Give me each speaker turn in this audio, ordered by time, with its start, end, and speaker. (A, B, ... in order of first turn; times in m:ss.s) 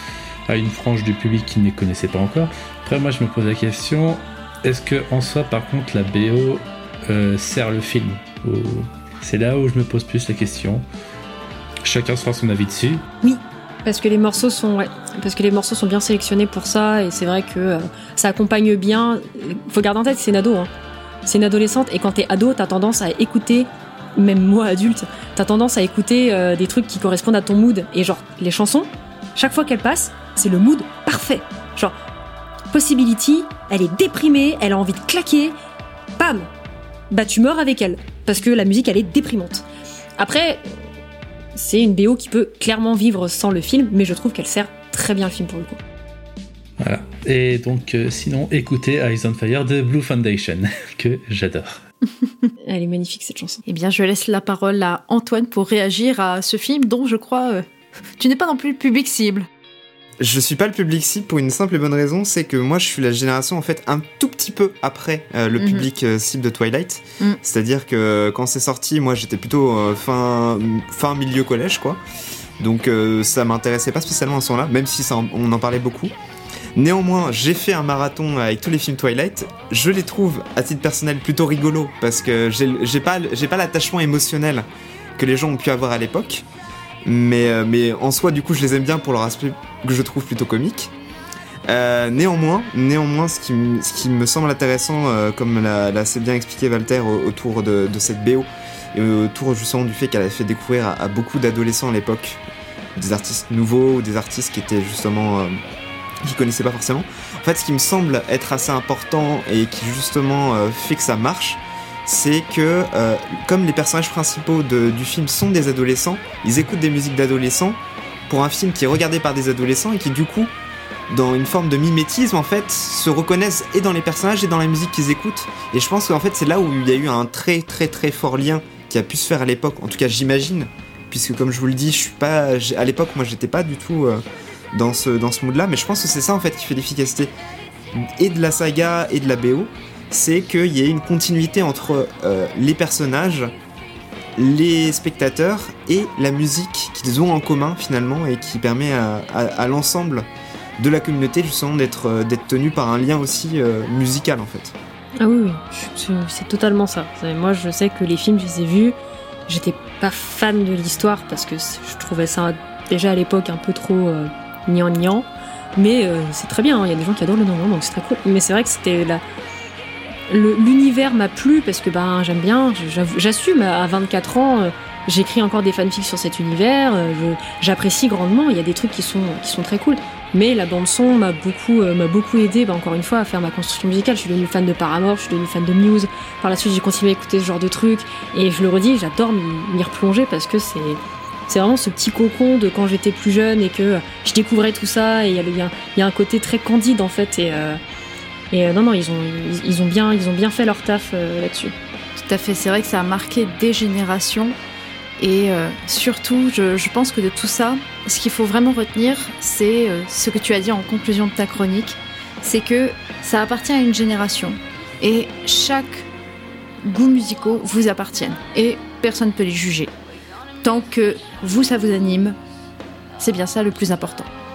0:00.5-0:10.8 A
0:11.8-0:13.1 A
0:13.2-0:20.7 B
0:21.2-0:32.0 B
0:32.7-0:35.6 B
0:36.2-0:36.5 B
0:37.1-0:39.6 B
0:40.2-0:40.7 B
0:41.5-0:45.8 B
0:46.8-0:51.8 A
0:52.6-0:53.6 B
0:53.6-0:57.6 C
0:58.2-0:59.5 C
1:00.2-1:12.0 D
1:05.6-1:05.8 C
1:12.6-1:16.1 D
1:16.8-1:24.6 D
1:25.2-1:26.4 D
1:27.0-1:30.9 D
1:31.7-1:42.4 D
1:43.0-1:45.6 D
1:46.2-2:00.5 D
2:01.1-2:14.2 D
2:14.7-2:17.3 D
2:18.0-2:23.5 D
2:24.4-2:30.3 D
2:30.8-2:34.7 D
2:35.2-2:39.0 B
2:39.5-2:49.2 B
2:50.3-3:17.8 B
3:18.5-3:21.7 B
3:22.2-3:24.6 C
3:25.2-3:36.1 C
3:36.8-3:39.9 C
3:40.6-3:42.4 C
3:43.2-3:44.3 C